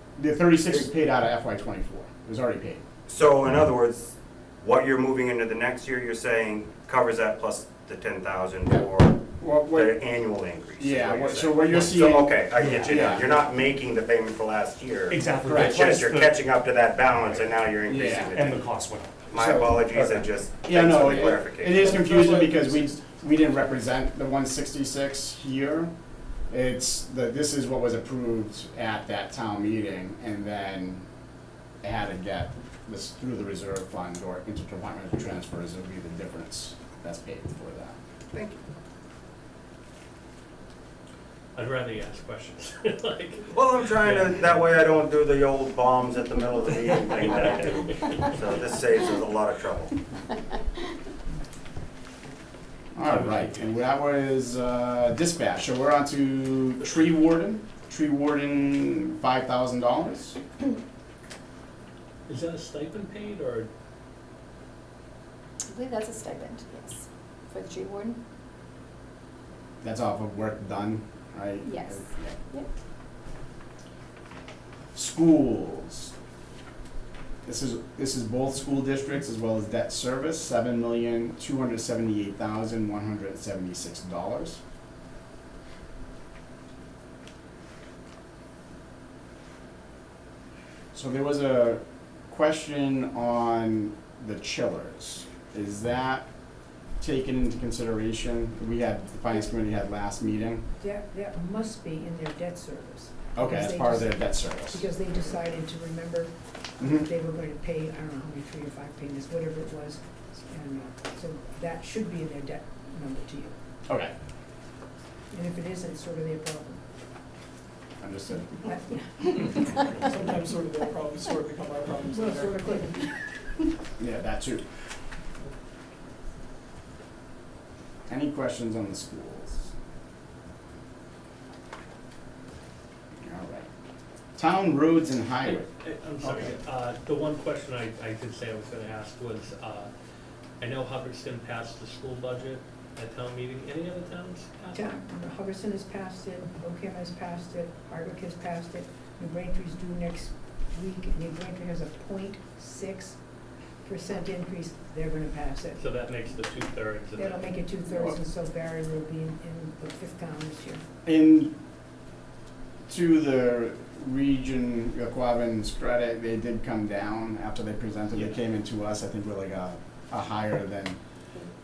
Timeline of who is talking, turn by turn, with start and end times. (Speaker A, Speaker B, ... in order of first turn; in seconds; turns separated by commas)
Speaker A: 0.2-2.8, Speaker B: 3.1-18.6, Speaker A: 9.4-10.0, Speaker A: 10.8-13.3, Speaker C: 12.6-12.9, Speaker C: 15.1-16.3, Speaker A: 15.4-15.9, Speaker A: 17.8-18.3, Speaker C: 18.4-20.2, Speaker B: 19.3-21.9, Speaker A: 19.4-19.8, Speaker A: 20.6-25.9, Speaker D: 21.9-22.9, Speaker A: 26.5-31.0, Speaker A: 31.8-38.0, Speaker E: 41.5-44.4, Speaker B: 43.5-49.9, Speaker E: 47.1-48.0, Speaker A: 52.9-60.4, Speaker E: 53.0-53.8, Speaker E: 62.3-63.7, Speaker F: 65.7-68.2, Speaker A: 69.8-72.3, Speaker F: 71.6-72.7, Speaker A: 74.9-76.1, Speaker A: 77.5-84.6, Speaker A: 90.9-96.3, Speaker A: 97.0-100.6, Speaker G: 100.8-113.5, Speaker A: 103.3-104.8, Speaker A: 106.8-107.0, Speaker A: 113.9-114.1, Speaker G: 115.3-116.8, Speaker A: 118.0-118.7, Speaker G: 118.6-119.9, Speaker D: 120.0-122.8, Speaker G: 122.1-123.1, Speaker A: 124.0-124.6, Speaker A: 128.1-129.7, Speaker A: 133.2-133.7, Speaker A: 134.3-136.5, Speaker E: 135.4-139.9, Speaker E: 140.6-144.9, Speaker G: 144.7-153.2, Speaker G: 153.8-155.8, Speaker E: 155.8-157.6, Speaker G: 157.2-160.8, Speaker A: 161.0-161.5, Speaker A: 162.9-171.0